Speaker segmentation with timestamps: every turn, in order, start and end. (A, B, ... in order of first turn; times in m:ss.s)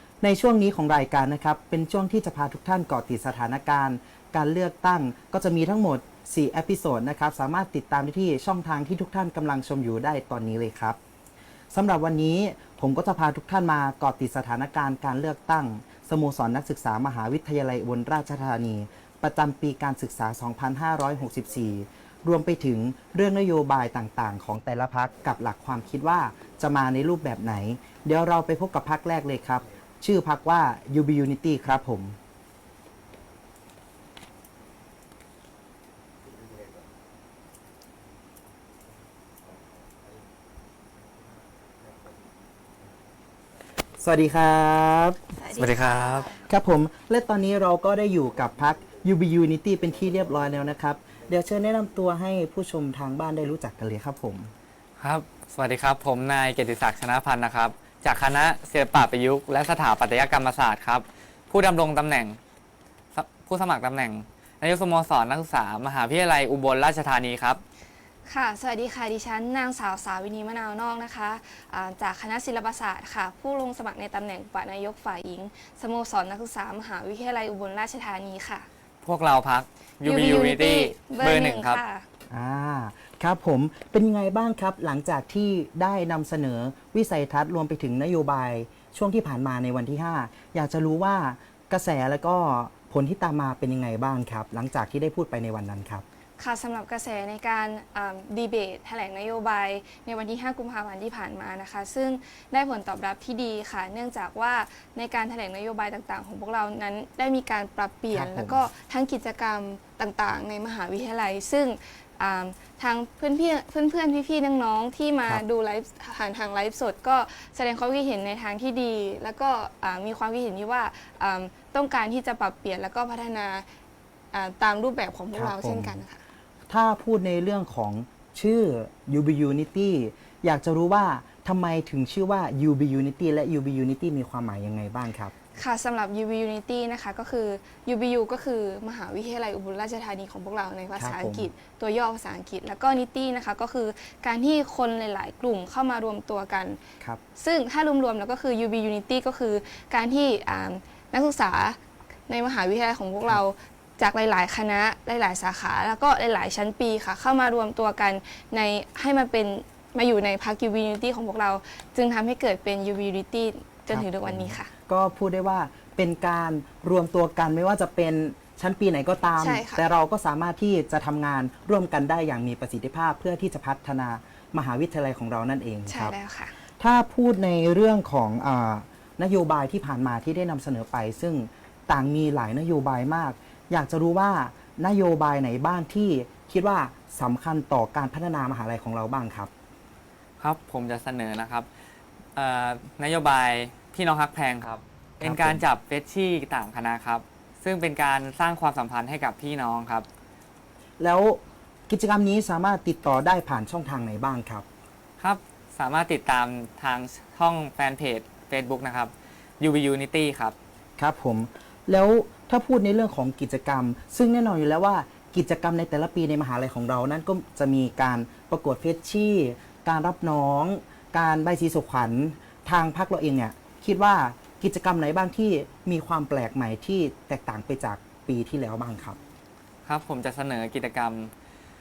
0:00.2-0:11.0 A
0:11.7-0:32.2 A
0:44.0-0:45.2 A
0:45.4-0:46.3 B
0:45.6-0:46.4 C
0:46.4-0:54.5 A
0:55.0-1:02.4 C
1:03.1-1:07.6 C
1:08.3-1:18.7 B
1:19.0-1:21.8 C
1:20.0-1:22.1 B
1:22.3-1:36.0 A
1:36.4-2:03.7 B
1:48.1-1:48.6 A
2:04.3-2:06.2 B
2:05.3-2:06.0 A
2:06.7-2:15.4 A
2:15.6-2:26.8 B
2:21.0-2:21.5 A
2:27.4-2:44.7 B
2:43.9-2:56.2 A
2:49.4-2:49.8 B
2:55.9-2:56.6 B
2:56.8-3:09.5 A
3:10.4-3:11.7 C
3:12.4-3:20.1 C
3:15.2-3:15.6 A
3:21.0-3:24.6 A
3:25.2-3:30.6 C
3:31.0-3:49.2 A
3:49.8-3:51.3 C